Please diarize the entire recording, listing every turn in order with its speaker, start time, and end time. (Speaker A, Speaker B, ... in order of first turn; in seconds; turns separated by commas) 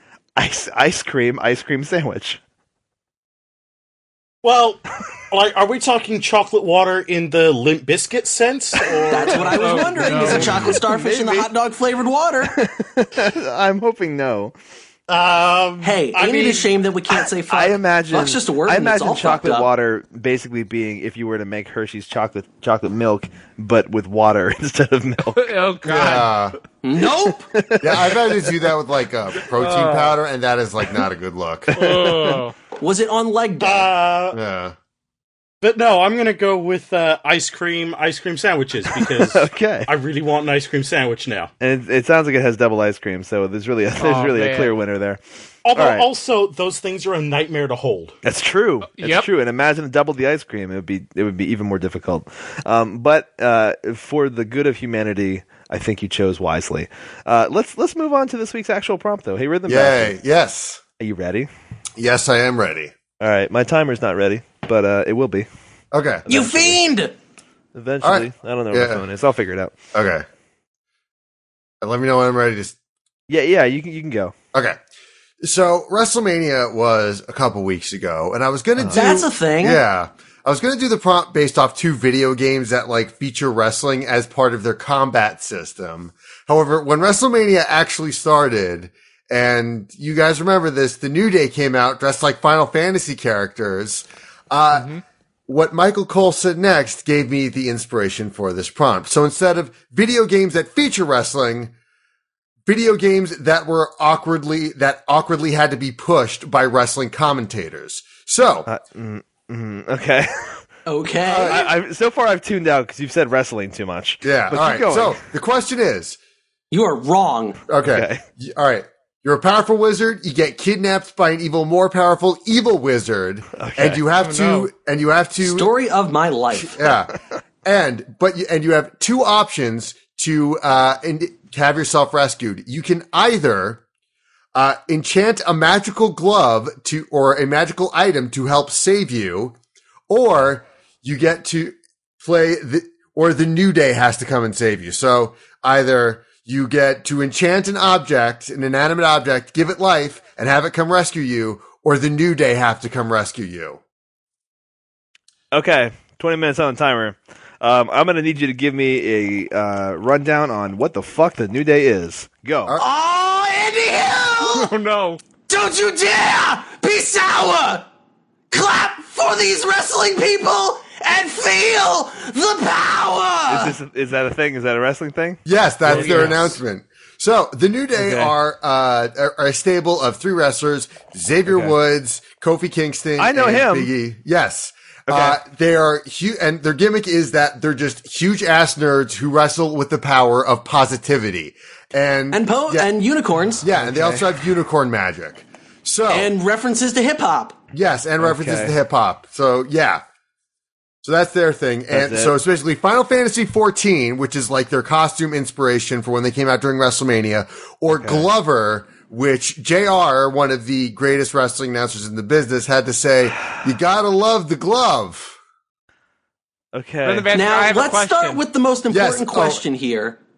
Speaker A: 0.4-2.4, Speaker B: 4.4-10.4, Speaker A: 9.0-11.5, Speaker C: 9.1-12.6, Speaker D: 9.6-10.6, Speaker A: 12.5-14.5, Speaker B: 15.1-16.8, Speaker C: 15.8-19.7, Speaker A: 17.5-25.6, Speaker D: 25.4-26.4, Speaker E: 25.9-26.6, Speaker C: 26.8-27.5, Speaker A: 27.5-28.7, Speaker E: 27.8-31.8, Speaker D: 29.5-30.2, Speaker A: 31.7-32.4, Speaker D: 31.7-32.5, Speaker C: 32.8-33.9, Speaker B: 33.6-34.4, Speaker E: 34.3-34.8, Speaker B: 35.6-41.5, Speaker A: 39.0-39.9, Speaker A: 41.6-45.2, Speaker D: 44.0-44.8, Speaker B: 45.6-48.1, Speaker A: 45.7-46.1, Speaker A: 48.2-60.2, Speaker D: 48.9-49.3, Speaker E: 59.7-60.8, Speaker A: 61.0-61.5, Speaker E: 62.0-62.9, Speaker A: 63.2-65.5, Speaker E: 65.9-66.3, Speaker A: 66.3-66.8, Speaker C: 66.3-67.2, Speaker A: 67.7-69.8, Speaker E: 68.0-69.0, Speaker E: 69.9-70.2, Speaker E: 71.8-72.8, Speaker A: 73.3-74.3, Speaker E: 75.4-94.9, Speaker A: 78.8-79.1, Speaker C: 78.9-79.8, Speaker D: 94.7-95.0, Speaker E: 95.5-101.7, Speaker E: 102.7-108.7, Speaker A: 108.7-110.6, Speaker C: 110.9-111.7, Speaker A: 111.2-115.2, Speaker E: 114.2-116.2, Speaker C: 116.7-117.6, Speaker E: 117.7-125.7, Speaker A: 117.8-118.2, Speaker A: 123.6-124.0, Speaker D: 124.2-124.7, Speaker C: 125.4-126.8, Speaker E: 126.5-127.1, Speaker E: 127.7-133.8, Speaker E: 134.6-139.6, Speaker E: 140.1-153.8, Speaker A: 155.5-162.8, Speaker C: 162.8-164.7, Speaker D: 164.5-165.2, Speaker C: 165.5-167.9, Speaker C: 168.5-173.8, Speaker A: 173.5-176.4, Speaker E: 175.5-192.9, Speaker D: 175.9-176.4, Speaker A: 177.9-178.3, Speaker A: 181.5-181.8, Speaker A: 183.2-183.9, Speaker A: 185.1-185.4, Speaker C: 192.3-193.6, Speaker E: 193.6-196.3, Speaker A: 193.7-194.3, Speaker C: 196.1-197.6, Speaker E: 197.7-200.0, Speaker A: 198.2-198.8, Speaker E: 201.0-215.4, Speaker A: 201.9-202.4, Speaker A: 207.9-208.3, Speaker A: 216.7-217.3, Speaker D: 217.0-218.4, Speaker C: 217.3-220.2, Speaker E: 218.9-219.6